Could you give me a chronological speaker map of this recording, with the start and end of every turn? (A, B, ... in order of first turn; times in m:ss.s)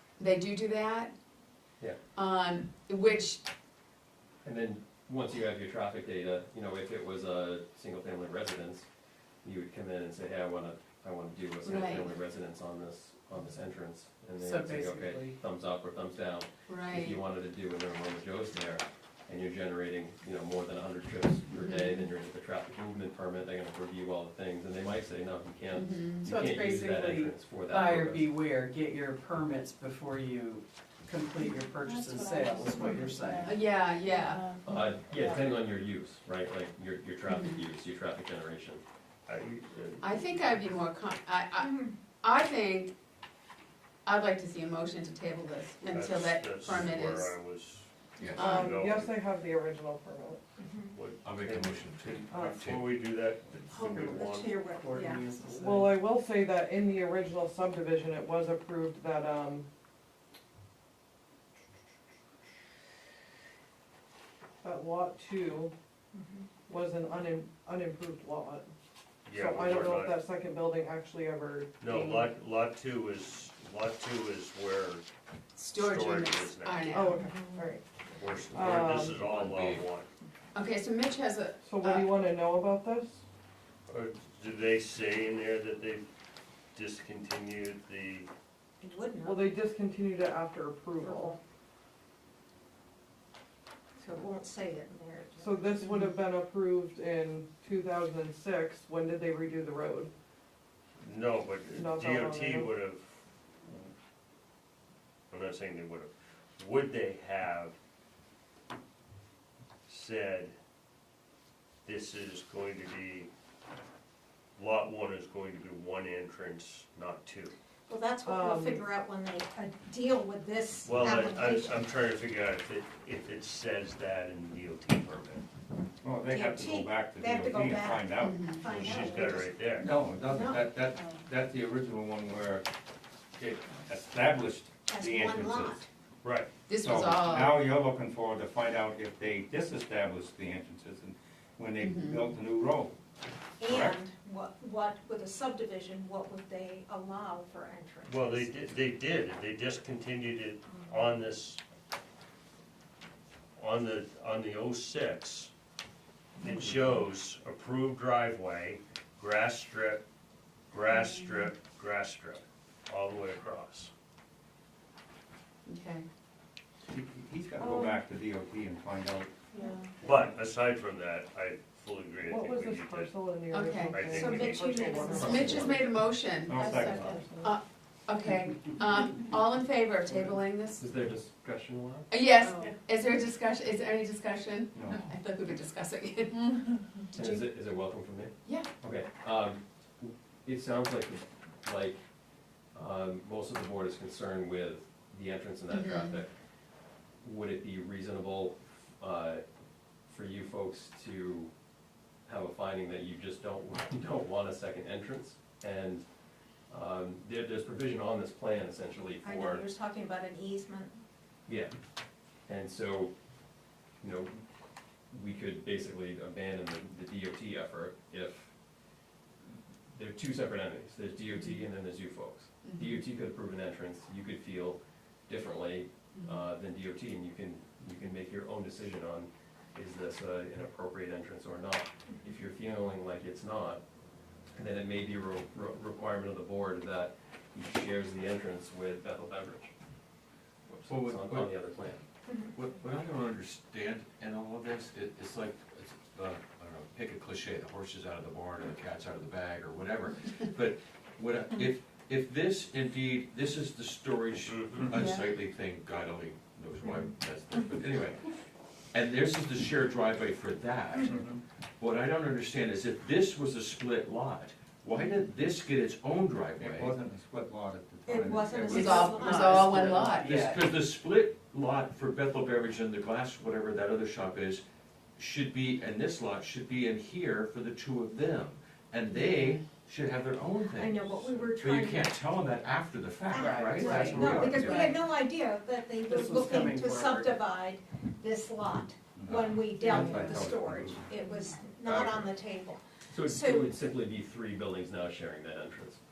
0:00.2-0:01.1 A
0:02.1-0:03.4 A
0:04.4-0:08.9 B
0:09.4-0:28.3 B
0:11.6-0:12.1 A
0:14.4-0:15.4 C
0:16.7-0:17.2 A
0:21.6-0:22.0 A
0:25.7-0:26.4 A
0:26.3-0:33.7 C
0:33.4-0:34.5 A
0:34.6-0:38.8 B
0:37.3-0:37.6 A
0:39.3-0:40.6 D
0:40.0-0:42.9 A
0:41.6-0:42.0 E
0:44.0-0:47.4 A
0:45.9-0:49.2 D
0:48.2-0:48.5 F
0:48.4-0:50.4 G
0:48.4-0:48.7 A
0:50.6-0:50.9 E
0:50.9-0:54.7 D
0:51.2-0:52.8 F
0:52.3-0:52.7 G
0:53.7-0:56.0 C
0:53.7-0:55.4 E
0:55.6-0:59.7 G
1:04.6-1:05.7 G
1:06.1-1:06.5 E
1:06.7-1:08.7 G
1:09.3-1:10.2 D
1:09.3-1:12.3 G
1:11.8-1:15.0 D
1:15.6-1:17.3 A
1:15.7-1:17.0 D
1:16.9-1:17.9 G
1:18.2-1:20.1 D
1:18.5-1:19.2 G
1:19.0-1:19.9 F
1:20.5-1:22.1 A
1:21.6-1:23.2 G
1:23.9-1:26.1 D
1:26.8-1:28.3 D
1:28.8-1:29.6 E
1:29.2-1:31.4 G
1:31.0-1:31.4 E
1:34.0-1:35.9 E
1:35.4-1:40.1 G
1:41.0-1:43.9 D
1:41.8-1:42.7 G
1:45.3-1:47.8 D
1:49.9-1:50.5 D
1:51.8-1:53.3 D
1:54.6-1:57.5 D
1:57.9-2:01.9 E
1:58.2-1:58.8 G
2:00.8-2:05.4 D
2:06.0-2:08.5 H
2:06.3-2:09.6 E
2:08.2-2:08.7 A
2:08.7-2:09.9 D
2:09.8-2:12.7 H
2:10.3-2:10.7 E
2:13.4-2:15.8 H
2:14.9-2:15.9 E
2:16.2-2:16.5 D
2:16.7-2:17.6 A
2:16.8-2:23.0 H
2:21.8-2:22.3 A
2:23.6-2:28.5 E
2:23.6-2:24.0 H
2:28.0-2:31.6 D
2:33.6-2:35.5 D
2:36.4-2:40.0 D
2:40.7-2:43.9 D
2:45.7-2:46.1 A
2:46.9-2:49.3 H
2:47.6-2:48.0 G
2:50.0-2:53.3 D
2:52.3-2:55.9 G
2:53.5-2:54.1 A
2:53.9-2:55.6 D
2:54.2-2:55.7 E
2:55.1-3:00.8 A
2:55.2-2:55.6 B
2:56.4-2:57.2 H
2:56.6-2:57.6 G
3:00.8-3:02.1 B
3:02.1-3:07.5 A
3:04.8-3:05.1 H
3:07.2-3:12.0 B
3:12.6-3:16.3 B
3:15.7-3:16.2 A
3:17.2-3:19.4 B
3:20.0-3:21.5 B
3:22.2-3:26.1 B
3:26.7-3:29.7 B
3:29.2-3:31.0 E
3:31.5-3:31.7 B
3:32.4-3:33.1 B
3:34.0-3:34.4 B
3:35.1-3:38.6 B
3:39.9-3:53.8 B
3:42.6-3:42.9 A
3:46.2-3:46.4 A
3:54.5-3:59.7 B
4:00.7-4:02.0 B
4:00.9-4:02.0 F
4:02.5-4:18.3 F
4:14.4-4:15.0 D
4:18.9-4:21.2 F
4:21.0-4:21.4 H
4:21.8-4:27.0 F
4:26.6-4:29.5 H
4:28.1-4:29.8 E
4:28.7-4:30.4 A
4:29.8-4:30.7 C
4:30.2-4:34.6 F
4:35.2-4:45.0 F
4:40.6-4:42.2 E
4:43.2-4:53.7 E
4:43.4-4:44.7 C
4:46.1-4:47.4 C
4:49.2-4:51.0 H
4:50.0-4:50.4 C
4:51.9-4:52.3 B
4:53.1-4:56.0 B